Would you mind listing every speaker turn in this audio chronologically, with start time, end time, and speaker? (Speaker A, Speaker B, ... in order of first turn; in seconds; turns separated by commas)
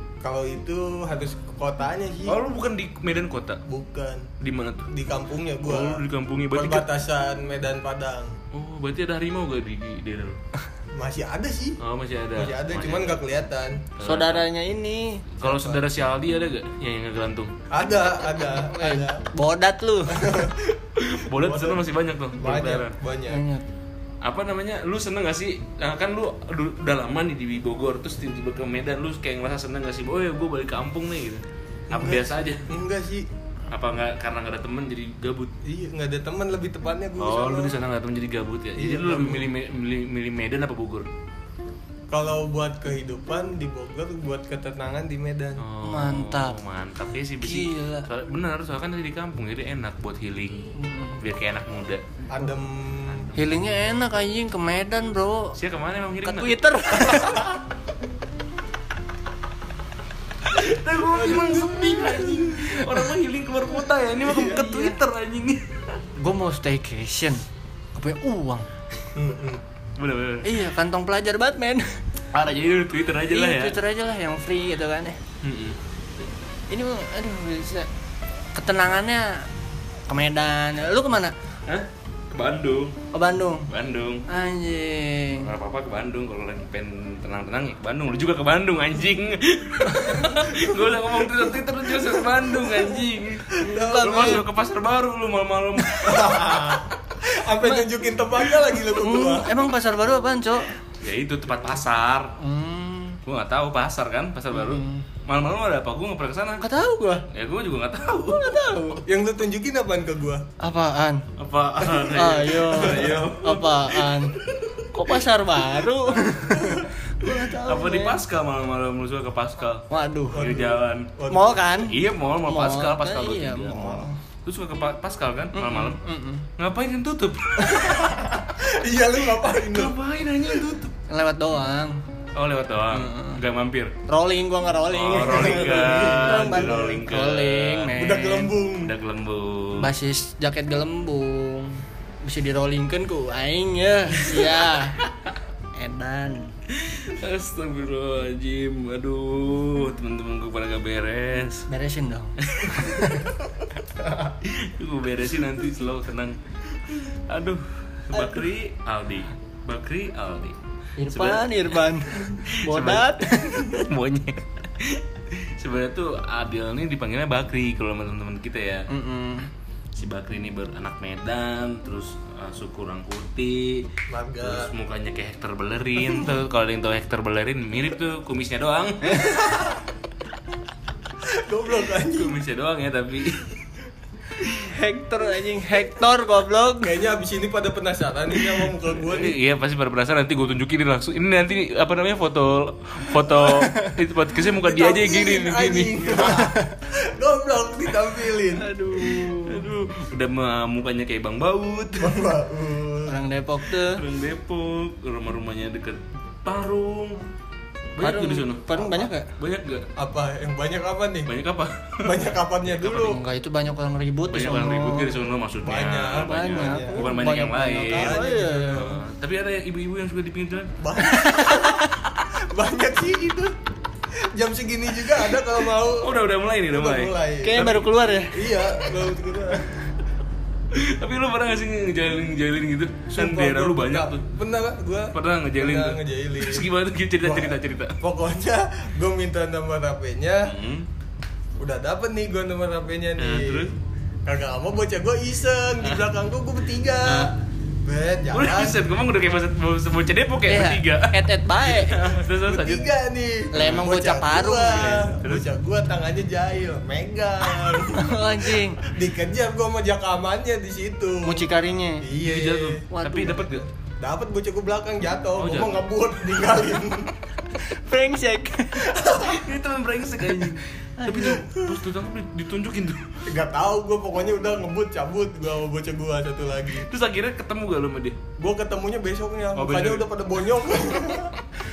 Speaker A: 0.2-2.4, Speaker B: 2.2-3.6, Speaker A: 3.6-4.3, Speaker B: 4.4-4.9, Speaker A: 4.9-8.3, Speaker B: 5.6-6.8, Speaker B: 8.5-10.4, Speaker A: 10.9-11.8, Speaker B: 11.8-13.2, Speaker A: 12.3-13.9, Speaker B: 14.0-14.4, Speaker C: 14.0-15.3, Speaker B: 15.4-17.5, Speaker A: 15.4-15.8, Speaker A: 17.7-19.2, Speaker C: 18.5-20.5, Speaker A: 20.1-20.7, Speaker B: 20.9-22.9, Speaker A: 21.3-21.8, Speaker A: 22.4-23.4, Speaker C: 23.3-23.6, Speaker B: 24.2-32.8, Speaker A: 31.9-33.3, Speaker B: 33.7-35.5, Speaker A: 35.6-37.7, Speaker B: 37.2-41.1, Speaker A: 38.8-39.5, Speaker A: 42.1-45.6, Speaker B: 45.6-52.2, Speaker C: 45.8-46.6, Speaker C: 47.4-48.1, Speaker C: 50.7-51.2, Speaker A: 52.3-53.3, Speaker B: 53.0-53.6, Speaker C: 53.3-55.6, Speaker B: 55.5-56.6, Speaker C: 56.2-57.5, Speaker B: 60.5-66.0, Speaker A: 61.3-62.2, Speaker C: 62.6-63.0, Speaker C: 64.2-65.0, Speaker C: 66.2-68.7, Speaker A: 69.1-69.6, Speaker B: 70.0-70.5, Speaker C: 70.4-72.0, Speaker B: 72.3-73.8, Speaker C: 73.3-75.2, Speaker B: 75.4-75.8, Speaker C: 76.7-77.9, Speaker C: 78.5-79.5, Speaker C: 80.1-81.3, Speaker B: 81.7-83.0, Speaker C: 83.1-83.7, Speaker B: 83.7-84.2, Speaker C: 84.3-85.5, Speaker B: 85.4-96.7, Speaker C: 89.9-90.3, Speaker A: 93.5-94.4, Speaker C: 93.6-94.4, Speaker C: 95.8-96.4, Speaker A: 96.0-99.5, Speaker C: 97.3-97.9, Speaker C: 98.6-100.8, Speaker B: 101.0-102.3, Speaker C: 102.4-103.2, Speaker B: 103.2-106.6, Speaker C: 104.5-105.0, Speaker C: 106.6-107.2, Speaker B: 107.3-108.6, Speaker C: 108.4-109.0, Speaker A: 109.0-110.5, Speaker C: 110.6-111.3, Speaker B: 111.3-115.1, Speaker C: 112.0-114.3, Speaker C: 114.9-118.2, Speaker B: 117.2-121.1, Speaker C: 119.9-120.6, Speaker A: 120.3-121.6, Speaker C: 121.3-124.2, Speaker B: 121.8-126.0, Speaker C: 125.5-126.5, Speaker B: 126.6-128.2, Speaker A: 127.7-129.9, Speaker B: 129.6-130.9, Speaker C: 131.1-132.0, Speaker B: 132.3-133.9, Speaker C: 132.9-133.4, Speaker C: 134.1-138.5, Speaker B: 134.9-138.0, Speaker A: 135.1-137.1, Speaker A: 137.9-138.9, Speaker B: 138.8-139.9, Speaker C: 139.8-145.0, Speaker B: 144.3-145.3, Speaker C: 145.8-146.5, Speaker B: 146.7-151.7, Speaker C: 151.7-153.3, Speaker B: 152.4-153.7, Speaker B: 154.4-160.6, Speaker C: 161.0-163.8, Speaker B: 161.1-168.9, Speaker C: 168.9-169.5, Speaker B: 169.9-173.9, Speaker A: 174.1-174.7, Speaker B: 174.4-179.4, Speaker A: 179.4-179.8, Speaker A: 181.2-182.4, Speaker B: 182.1-183.7, Speaker B: 184.3-184.6, Speaker C: 184.6-187.0, Speaker A: 186.8-189.3, Speaker B: 189.0-196.2, Speaker C: 193.4-193.9, Speaker A: 194.5-198.7, Speaker C: 196.2-196.7, Speaker C: 198.5-199.6, Speaker B: 199.3-202.3, Speaker A: 202.0-203.2, Speaker C: 203.1-204.0, Speaker B: 203.8-207.3, Speaker B: 207.9-209.9, Speaker C: 208.0-209.3, Speaker A: 209.9-211.3, Speaker B: 211.2-213.2, Speaker A: 212.0-213.2, Speaker C: 213.0-215.1, Speaker B: 214.3-220.7, Speaker A: 215.6-217.1, Speaker C: 216.2-218.9, Speaker A: 217.8-218.9, Speaker A: 220.8-223.5, Speaker C: 221.0-221.9, Speaker A: 224.2-226.1, Speaker B: 226.0-228.2, Speaker A: 226.7-227.6, Speaker C: 227.4-228.7, Speaker A: 228.3-229.8, Speaker B: 230.7-234.2, Speaker A: 233.1-236.7, Speaker B: 235.1-238.0, Speaker A: 237.2-240.5, Speaker B: 240.4-240.9, Speaker A: 241.6-243.7, Speaker B: 243.2-243.7, Speaker A: 244.2-248.8, Speaker B: 247.0-247.3, Speaker B: 248.3-252.9, Speaker C: 250.4-252.0, Speaker A: 252.2-261.4, Speaker C: 253.5-255.1, Speaker B: 253.6-253.8, Speaker B: 254.7-255.4, Speaker C: 257.9-258.8, Speaker C: 261.2-262.0, Speaker A: 262.0-267.1, Speaker B: 262.2-263.7, Speaker C: 262.9-263.5, Speaker B: 265.4-265.9, Speaker C: 267.6-269.2, Speaker A: 268.9-269.4, Speaker B: 269.2-273.3, Speaker C: 270.2-271.5, Speaker A: 273.3-276.9, Speaker B: 276.7-278.2, Speaker A: 278.4-281.3, Speaker B: 279.5-280.1